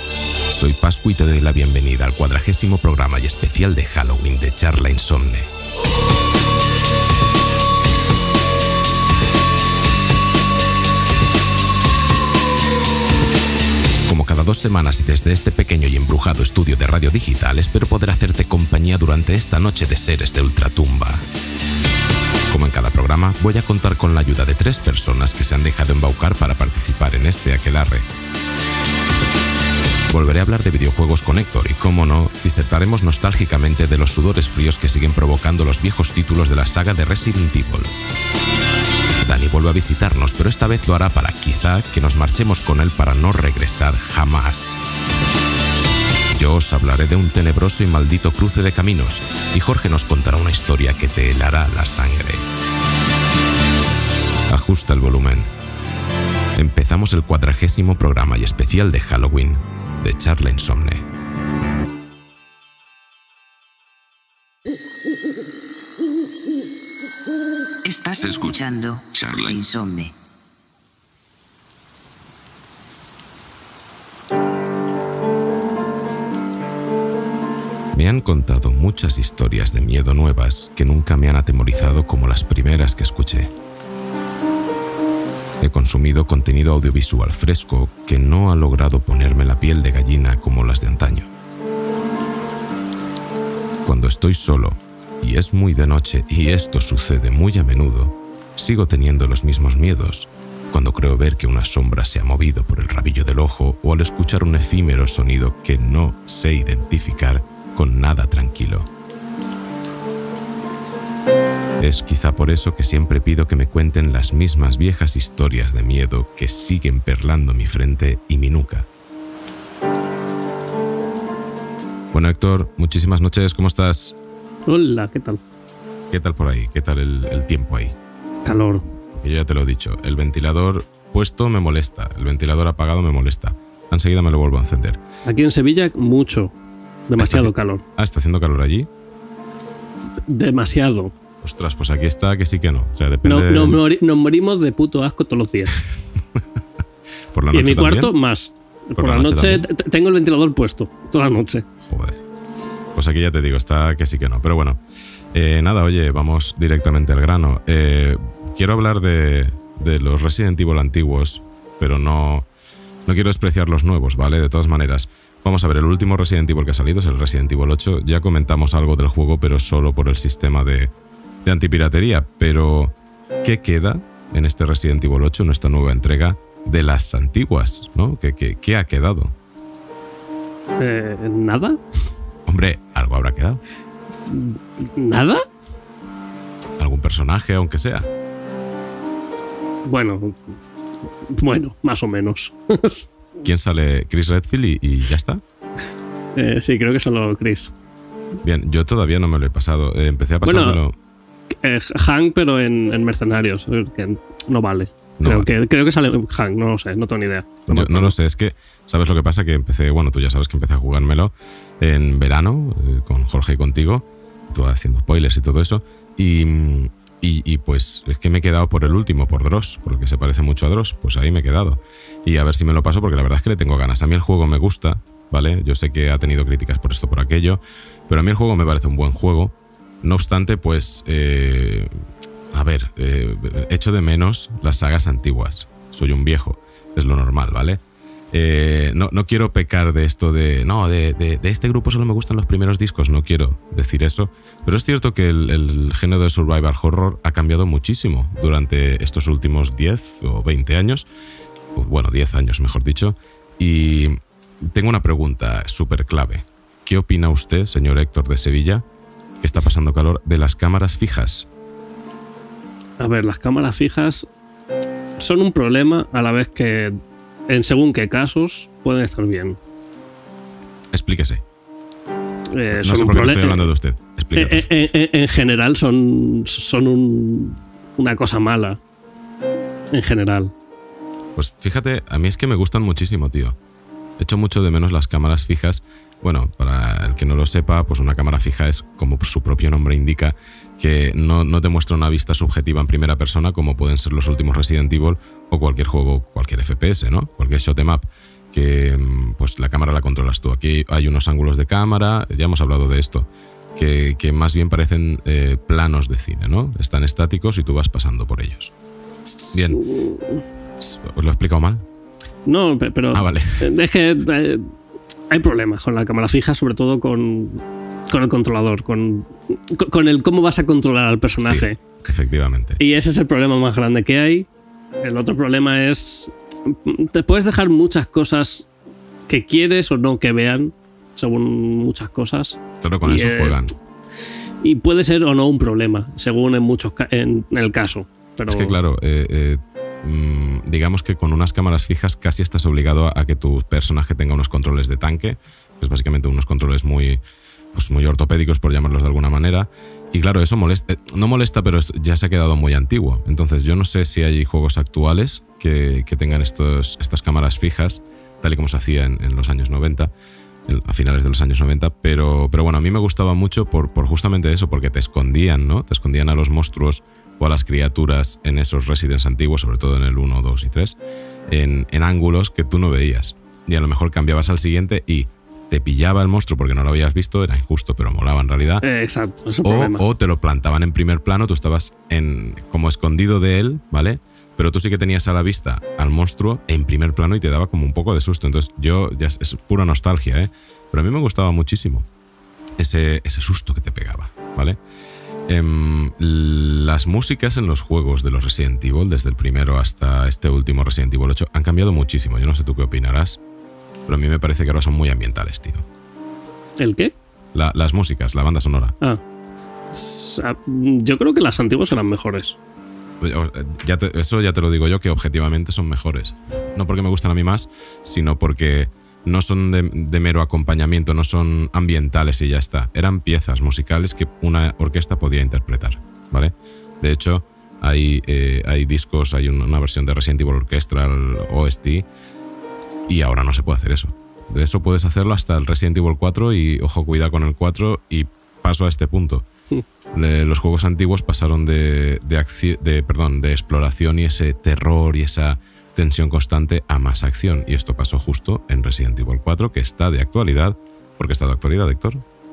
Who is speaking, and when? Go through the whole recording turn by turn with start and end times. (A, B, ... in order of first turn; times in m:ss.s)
0:00.5-0:05.5 A
0:14.1-0:21.2 A
0:22.5-0:28.1 A
0:30.1-0:37.9 A
0:39.2-0:44.8 A
0:46.3-0:52.4 A
0:54.5-0:55.5 A
0:56.6-1:01.0 A
1:07.8-1:10.1 B
1:17.9-1:23.5 A
1:25.6-1:31.3 A
1:33.8-1:48.9 A
1:51.8-1:58.9 A
2:02.1-2:04.2 A
2:04.6-2:05.4 C
2:06.1-2:08.0 A
2:08.4-2:08.8 C
2:09.2-2:15.0 A
2:15.2-2:16.5 C
2:17.1-2:17.8 C
2:17.2-2:18.9 A
2:20.2-2:21.1 C
2:21.4-2:23.8 A
2:23.2-2:25.8 C
2:27.3-2:28.1 A
2:27.5-2:31.6 C
2:29.0-2:29.6 A
2:31.9-2:32.2 A
2:32.9-2:34.8 A
2:35.3-2:42.5 A
2:43.0-2:50.9 A
2:51.4-2:59.3 A
3:00.8-3:01.8 C
3:02.5-3:03.6 A
3:04.3-3:05.4 C
3:06.8-3:08.1 A
3:09.8-3:10.5 C
3:11.2-3:13.0 C
3:13.4-3:15.4 A
3:16.4-3:17.7 C
3:18.4-3:20.9 A
3:20.4-3:20.8 C
3:21.5-3:28.1 C
3:25.2-3:25.5 A
3:27.7-3:51.9 A
3:52.5-3:57.8 A
3:58.3-4:11.0 A
4:11.8-4:18.8 A
4:19.4-4:21.5 A
4:23.0-4:24.3 C
4:25.2-4:29.6 C
4:30.9-4:31.4 A
4:32.5-4:33.7 C
4:32.7-4:34.7 A
4:34.3-4:38.8 C
4:39.9-4:40.5 C
4:41.4-4:43.6 A
4:44.2-5:08.7 A
5:09.4-5:10.4 C
5:09.5-5:09.8 A
5:10.8-5:11.8 A
5:12.4-5:14.7 C
5:13.1-5:13.7 A
5:15.3-5:21.8 C
5:21.4-5:22.8 A
5:22.8-5:24.5 C
5:25.0-5:28.7 C
5:29.3-5:33.6 C
5:32.8-5:33.7 A
5:34.6-5:38.8 C
5:38.5-5:47.2 A
5:47.7-6:00.1 A
6:00.7-6:11.0 A
6:11.5-6:18.8 A
6:18.8-6:20.0 C
6:19.6-6:32.1 A
6:32.8-6:34.8 A
6:35.5-6:43.4 A
6:44.1-6:45.8 A
6:46.8-6:47.1 C
6:47.5-6:48.9 A
6:49.9-6:52.6 C
6:53.2-7:12.0 A
7:13.1-7:19.5 A
7:20.1-7:32.2 A